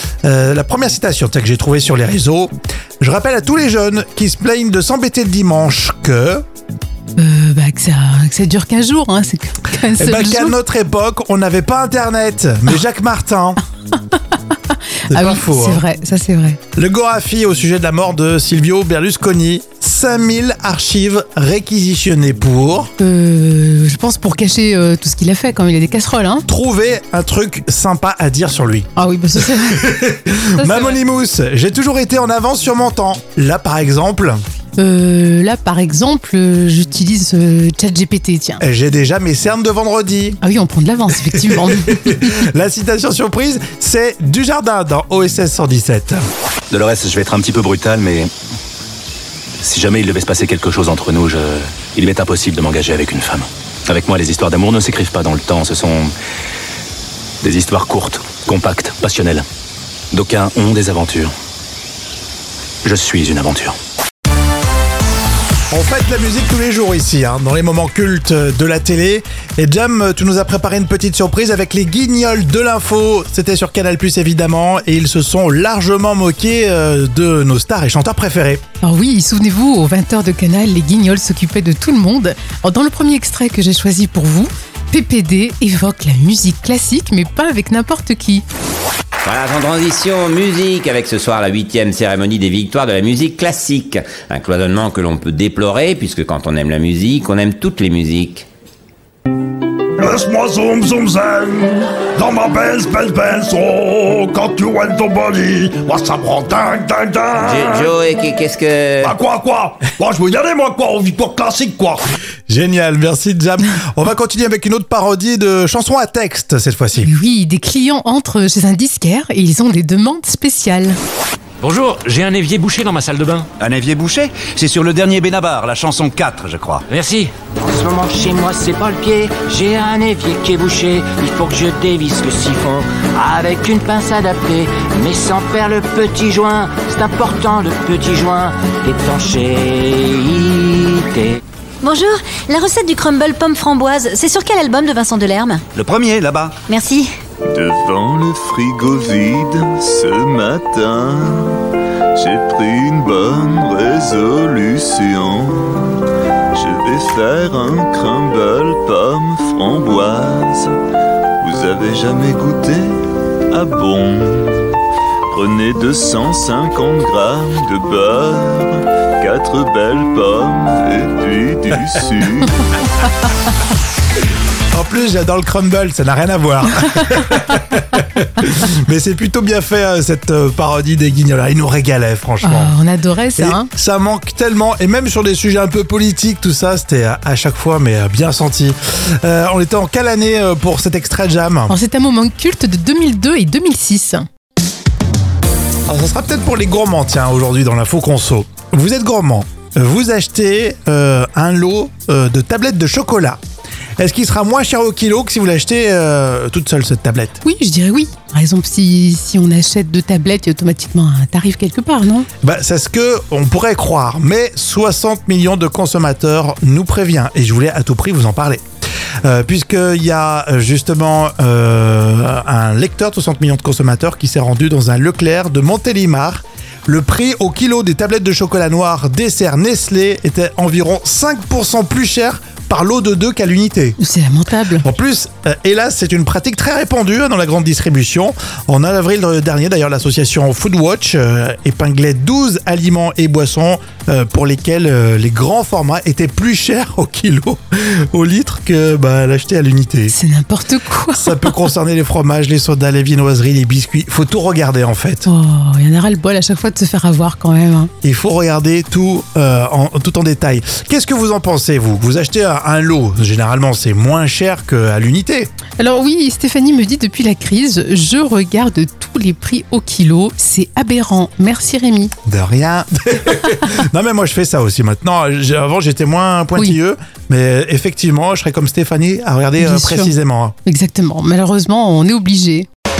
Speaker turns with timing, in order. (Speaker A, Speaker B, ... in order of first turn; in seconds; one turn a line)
Speaker A: 0.2-6.4
Speaker B: 7.2-10.6
Speaker A: 9.9-13.6
Speaker B: 14.7-16.6
Speaker A: 15.1-15.8
Speaker A: 16.7-22.9
Speaker B: 23.0-26.4
Speaker A: 26.5-28.9
Speaker B: 28.9-30.0
Speaker A: 29.5-34.4
Speaker B: 30.6-31.0
Speaker B: 34.8-38.6
Speaker A: 38.6-40.4
Speaker B: 40.4-42.2
Speaker A: 41.3-46.2
Speaker C: 46.7-48.3
Speaker C: 49.6-56.1
Speaker C: 57.4-59.4
Speaker C: 60.1-61.3
Speaker C: 62.8-63.8
Speaker A: 65.7-78.6
Speaker B: 78.8-88.4
Speaker D: 89.2-98.5
Speaker E: 100.0-107.9
Speaker D: 107.4-109.1
Speaker E: 109.0-112.0
Speaker A: 112.5-117.1
Speaker B: 117.0-121.0
Speaker F: 121.6-123.5
Speaker G: 123.6-126.8
Speaker F: 126.9-127.3
Speaker H: 127.6-141.4
Speaker I: 141.8-145.6
Speaker G: 145.7-146.6
Speaker I: 146.7-147.1
Speaker J: 147.5-151.6
Speaker J: 152.2-156.0
Speaker J: 156.5-160.8
Speaker J: 161.4-162.9
Speaker J: 163.5-164.8
Speaker J: 165.3-172.8
Speaker A: 174.7-182.7
Speaker B: 182.4-183.7
Speaker A: 183.3-191.7
Speaker B: 191.7-194.2
Speaker A: 195.9-203.4
Speaker A: 204.0-207.4
Speaker B: 207.4-212.3
Speaker A: 212.4-218.6
Speaker A: 219.2-234.0
Speaker B: 234.0-234.8
Speaker A: 234.8-250.1
Speaker B: 250.1-251.6
Speaker A: 251.2-255.2
Speaker B: 255.2-257.9
Speaker A: 258.0-265.5
Speaker B: 265.8-272.1
Speaker A: 272.2-280.5
Speaker B: 279.6-280.1
Speaker B: 280.6-282.7